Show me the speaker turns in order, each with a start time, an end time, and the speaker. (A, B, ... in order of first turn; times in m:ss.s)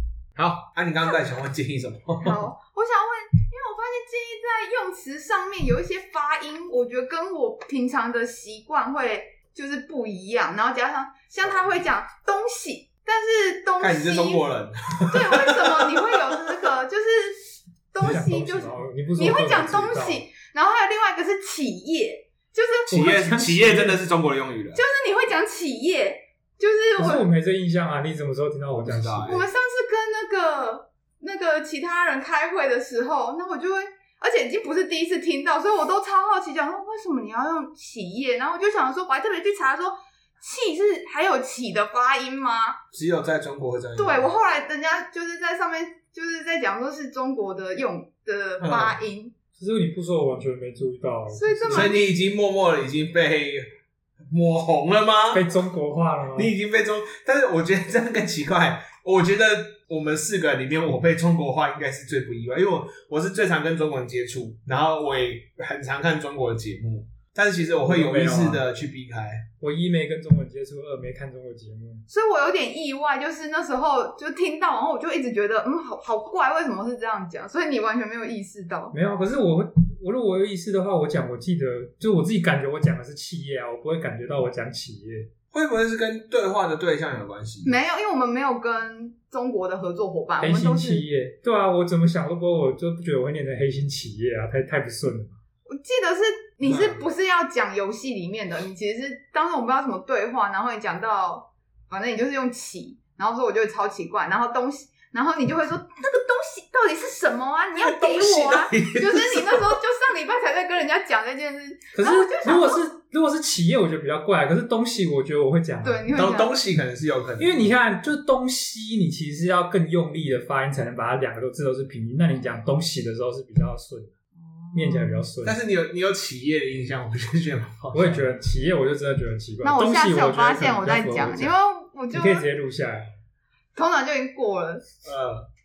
0:00.4-0:02.4 A
0:02.2-0:14.4 B
0:11.4-0:11.7 A
0:13.8-0:16.7 A
0:15.1-0:23.2 B
0:18.0-0:20.2 C
0:22.9-0:24.8 A
0:22.9-0:24.0 C
0:24.7-0:27.3 B
0:27.0-0:29.4 C
0:28.8-0:29.5 A
0:29.3-0:42.8 B
0:42.9-0:44.3 A
0:44.0-0:49.3 B
0:48.6-0:49.0 A
0:49.6-0:51.9 C
0:51.3-0:52.0 B
0:51.7-0:53.7 A
0:54.3-0:55.4 A
0:55.3-0:56.5 C
0:56.3-1:09.4 A
1:07.8-1:08.6 C
1:09.6-1:12.0 C
1:12.1-1:18.9 B
1:18.9-1:25.3 C
1:25.5-1:27.7 A
1:27.6-1:31.0 B
1:30.4-1:35.4 C
1:35.7-1:52.8 B
1:36.6-1:37.0 A
1:47.7-1:49.8 A
1:51.9-1:56.0 C
1:55.8-1:56.5 B
1:56.1-1:57.7 A
1:57.4-2:04.1 C
2:04.4-2:05.2 B
2:04.7-2:05.6 C
2:05.4-2:08.3 A
2:07.9-2:11.5 C
2:09.6-2:12.4 B
2:12.1-2:13.1 C
2:13.7-2:14.8 B
2:15.0-2:15.5 A